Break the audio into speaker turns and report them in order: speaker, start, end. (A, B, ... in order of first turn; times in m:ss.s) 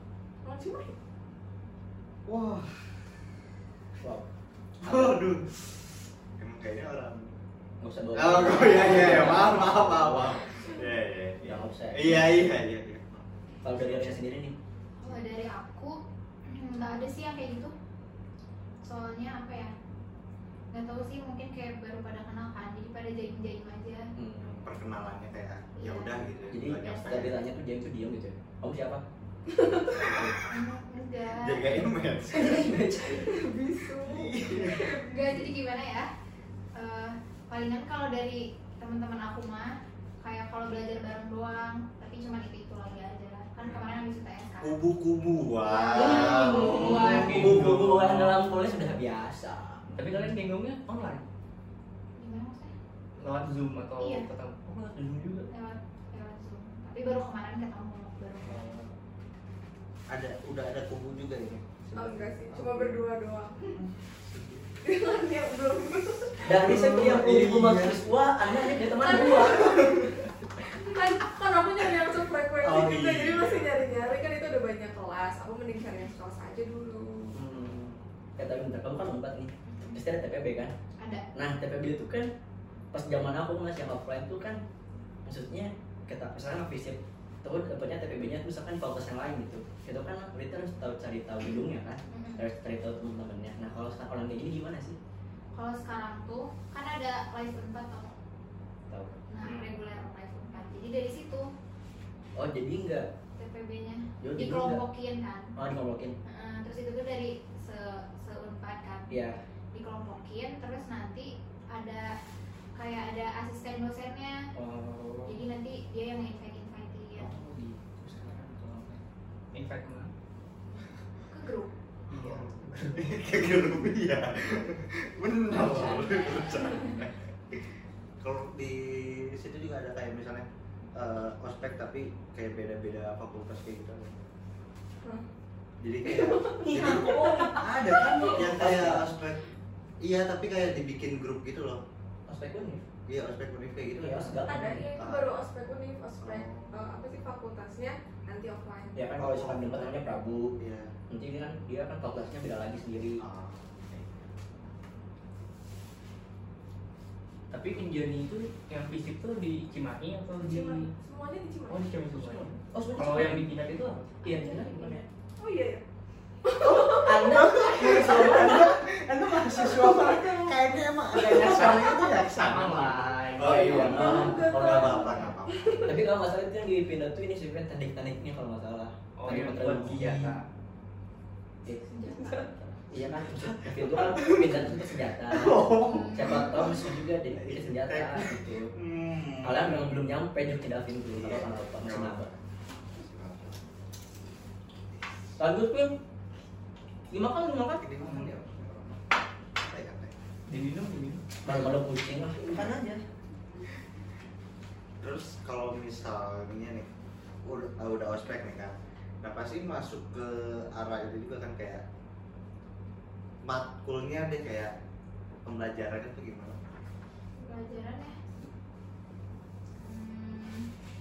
0:00.4-0:01.0 A
0:02.2-0:02.8 B
0:04.0-0:04.2 C
0:04.8-0:05.8 B
0:04.8-0:05.2 C
0:06.4-0:07.4 B
0:07.8-0:10.5 C
0:08.1-0:14.1 B
0:11.4-0:12.5 C
0:13.6-0:14.5 C
0:15.0-0:17.7 D
0:18.8-0:19.7 D
0:20.7-0:24.0 D
0:24.2-0:24.5 C
0:24.4-0:27.4 B
0:25.8-0:27.2 D
0:26.5-0:29.0 C
0:29.5-0:30.1 A
0:29.9-0:30.4 B
0:30.5-0:31.7 D
0:31.3-0:32.8 B
0:32.3-0:33.3 C
0:33.1-0:35.3 A
0:34.0-0:34.9 B
0:34.7-0:36.1 D
0:36.8-0:44.8 D
0:44.6-0:47.9 B
0:45.6-0:47.3 D
0:45.9-0:50.2 C
0:46.8-0:48.4 E
0:49.9-0:51.2 E
0:52.2-0:52.7 D
0:53.2-0:55.2 E
0:54.0-0:54.3 D
0:55.0-0:55.4 C
0:55.5-0:58.7 D
1:00.1-1:03.0 B
1:01.9-1:03.8 A
1:03.7-1:04.8 B
1:04.8-1:06.5 A
1:06.4-1:09.9 C
1:06.5-1:08.0 B
1:08.9-1:10.0 A
1:09.6-1:10.1 B
1:10.7-1:17.4 A
1:12.5-1:13.9 B
1:17.3-1:20.7 C
1:19.7-1:20.0 D
1:21.3-1:22.3 C
1:22.9-1:24.6 C
1:25.2-1:35.0 C
1:32.1-1:32.5 D
1:35.5-1:38.1 D
1:38.9-1:39.2 C
1:39.3-1:41.5 D
1:39.4-1:39.7 E
1:42.4-1:43.1 C
1:43.4-1:45.5 D
1:44.2-1:44.8 C
1:45.6-1:46.1 C
1:46.2-1:52.1 D
1:49.1-1:49.4 C
1:52.8-1:54.4 D
1:54.6-1:55.3 C
1:55.2-1:57.3 D
1:57.2-1:59.0 E
1:59.5-2:00.1 E
2:01.3-2:01.7 D
2:02.1-2:03.2 E
2:02.1-2:07.6 B
2:05.8-2:06.8 D
2:08.2-2:14.2 B
2:15.8-2:19.4 B
2:16.0-2:18.4 A
2:16.6-2:19.1 C
2:20.0-2:21.8 B
2:22.3-2:22.8 C
2:23.1-2:25.3 B
2:24.0-2:24.9 C
2:24.4-2:29.0 A
2:26.2-2:26.8 B
2:28.9-2:30.5 C
2:29.2-2:30.9 B
2:31.1-2:33.2 C
2:33.2-2:34.3 B
2:37.5-2:40.9 E
2:40.4-2:41.9 A
2:41.7-2:44.3 E
2:42.2-2:43.5 C
2:44.2-2:45.0 C
2:44.4-2:44.7 A
2:45.4-2:45.8 A
2:46.4-2:48.5 A
2:46.6-2:48.8 C
2:47.2-2:55.8 B
2:49.6-2:50.4 A
2:51.4-2:51.8 C
2:52.4-2:54.3 E
2:53.4-2:55.2 C
2:53.8-2:55.9 A
2:55.8-3:00.4 C
2:59.2-3:00.4 E
3:01.9-3:02.6 D
3:02.2-3:02.5 A
3:02.8-3:08.7 C
3:03.3-3:04.7 B
3:05.3-3:10.0 B
3:05.8-3:06.6 D
3:09.4-3:12.3 C
3:11.1-3:13.6 B
3:15.4-3:15.9 C
3:17.1-3:17.8 C
3:17.8-3:20.2 B
3:18.0-3:18.3 E
3:20.5-3:21.2 E
3:21.4-3:23.0 C
3:25.0-3:26.9 B
3:27.4-3:31.8 B
3:33.4-3:34.7 B
3:35.4-3:36.6 B
3:37.4-3:38.2 D
3:39.8-3:40.7 D